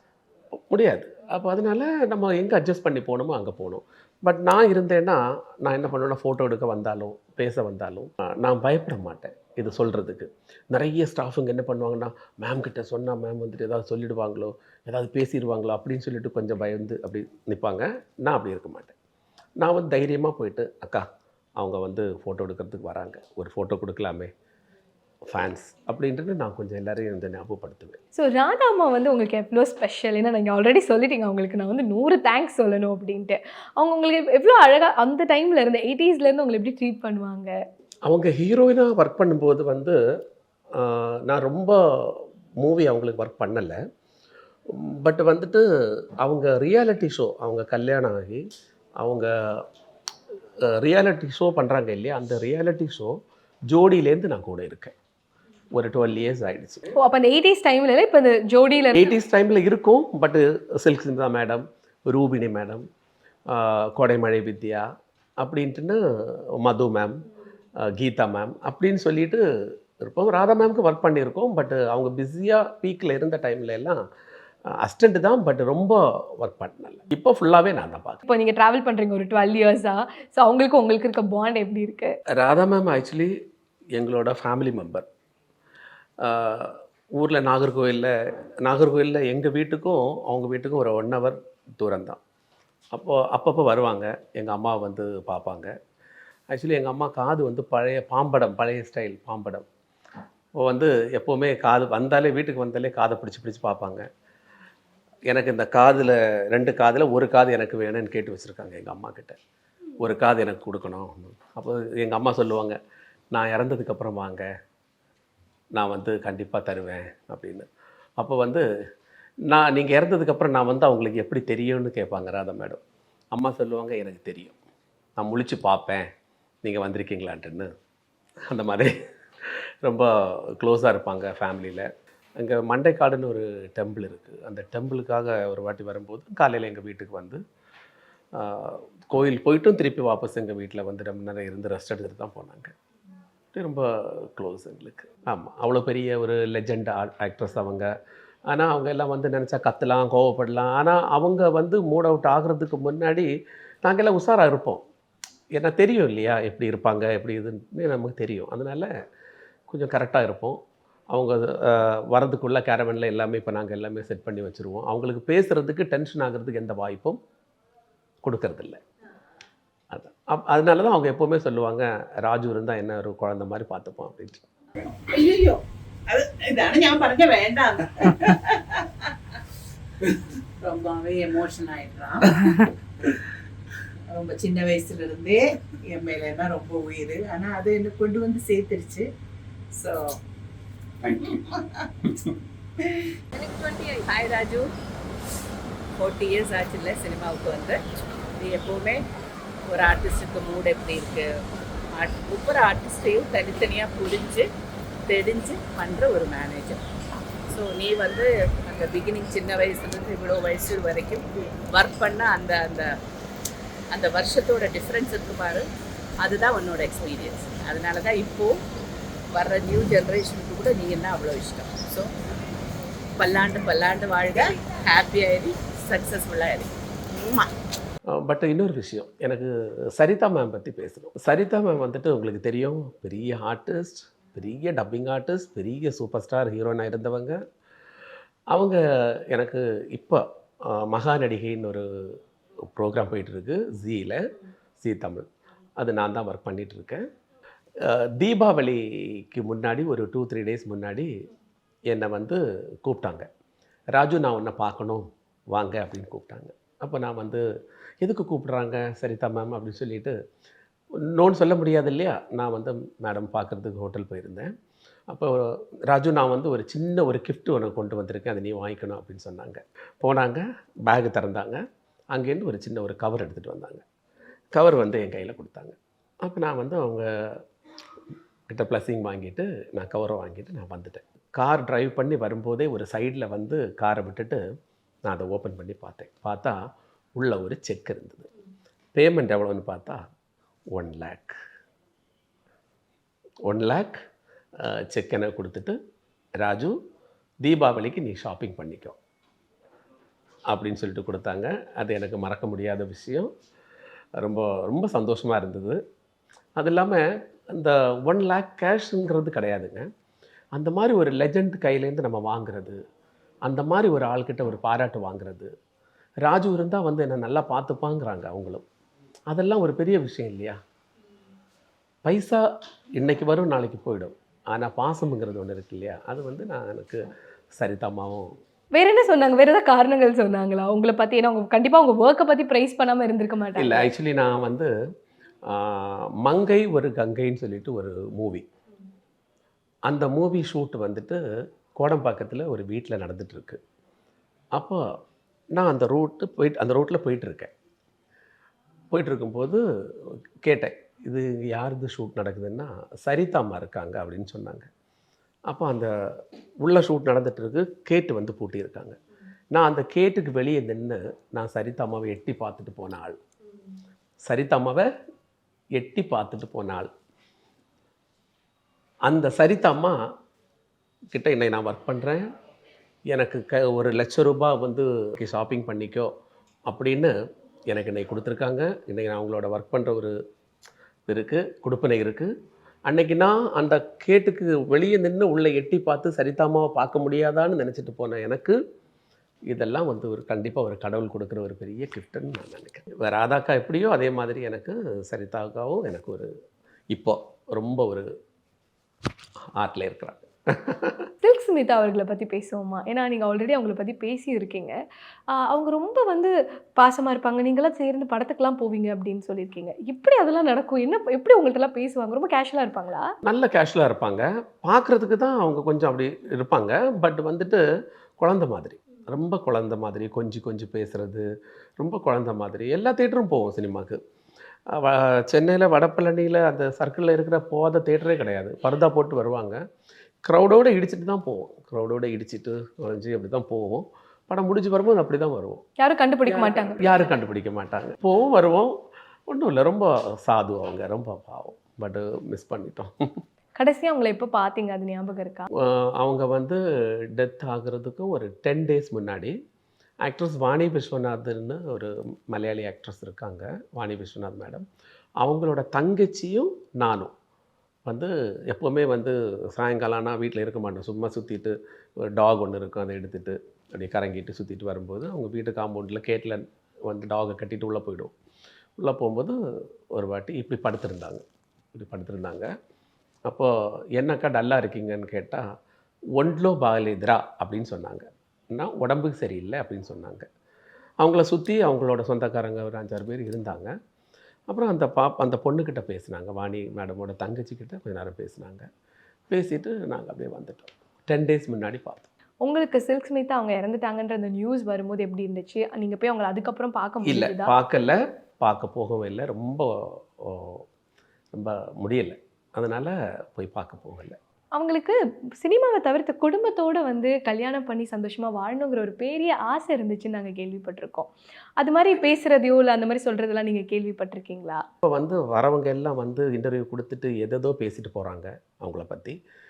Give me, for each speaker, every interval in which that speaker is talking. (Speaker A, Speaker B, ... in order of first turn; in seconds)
Speaker A: 0.6-18.9, 19.6-21.1, 21.6-24.3, 25.3-28.0, 38.1-40.0, 40.8-43.8, 44.7-45.6, 46.2-48.4, 49.0-49.6, 50.6-53.1, 53.7-54.9, 55.7-56.9, 58.9-62.8, 63.5-64.8, 65.4-66.0, 66.6-67.2, 67.8-69.4, 70.0-74.0, 74.7-78.2, 82.3-83.3, 83.9-85.0, 86.2-88.1, 88.6-92.2, 92.9-95.7, 96.5-99.7, 100.6-104.1, 105.3-109.4, 110.0-112.8, 113.3-114.5, 115.8-118.6, 119.5-122.8, 123.3-124.6, 125.2-126.1, 126.6-127.7, 128.5-128.9, 129.4-137.4, 138.3-142.7, 143.5-147.9, 148.5-153.3, 153.8-154.8, 155.6-158.9, 159.7-167.2, 168.2-168.8, 169.9-174.4, 228.1-237.4, 238.5-244.2, 244.8-245.2, 245.8-247.0, 247.8-251.1, 251.9-253.3, 253.9-257.4, 258.0-260.1, 261.0-264.5, 265.1-273.8, 274.5-277.4, 278.5-284.4, 285.0-286.6, 287.2-288.3, 288.9-290.0, 290.7-291.4, 293.4-294.0, 294.6-295.8, 296.4-296.8, 297.4-299.0, 300.5-303.3, 304.2-305.8, 306.6-309.9, 310.5-312.8, 313.4-315.5, 316.2-318.6, 319.3-320.6, 322.0-322.4, 322.9-327.0, 327.6-328.3, 333.6-334.7, 335.5-338.4, 339.9-341.2, 341.8-343.6, 344.5-344.8, 345.5-347.5, 348.9-354.7, 355.5-355.9, 356.6-359.0, 359.5-363.2, 364.2-364.9, 365.8-366.9, 369.1-369.9, 371.1-372.3, 373.1-376.1, 376.7-377.1, 377.7-380.1, 381.1-382.3, 382.9-388.6, 389.5-396.3, 396.9-398.1, 399.6-401.1, 413.2-417.6, 418.2-421.2, 421.8-424.0, 424.7-429.6, 430.2-435.6, 436.5-438.7, 439.3-443.2, 445.6-446.6, 447.1-449.4, 450.0-454.6, 455.2-457.1, 457.9-461.5, 462.0-468.1, 468.8-469.4, 469.9-472.5, 473.3-475.4, 476.1-480.3, 481.0-483.7, 484.5-488.7, 489.3-492.1, 497.0-500.6, 501.3-504.2, 514.8-519.2
Speaker B: 28.1-37.5, 57.0-59.1, 78.3-82.1, 193.4-193.9, 328.7-333.9, 401.2-404.7, 405.3-413.1, 435.8-436.8, 443.6-445.4, 492.4-497.5, 504.5-514.6
Speaker C: 175.1-175.5, 176.8-177.4, 181.3-182.1, 184.5-184.9, 187.3-188.9, 193.9-194.7, 196.0-197.8, 198.4-199.0, 199.7-201.2, 201.9-204.5, 205.1-206.8, 207.5-212.9, 213.9-215.6, 216.2-218.5, 219.3-222.1, 223.2-227.5
Speaker D: 176.6-177.6, 180.6-182.1, 184.2-185.4, 185.9-189.0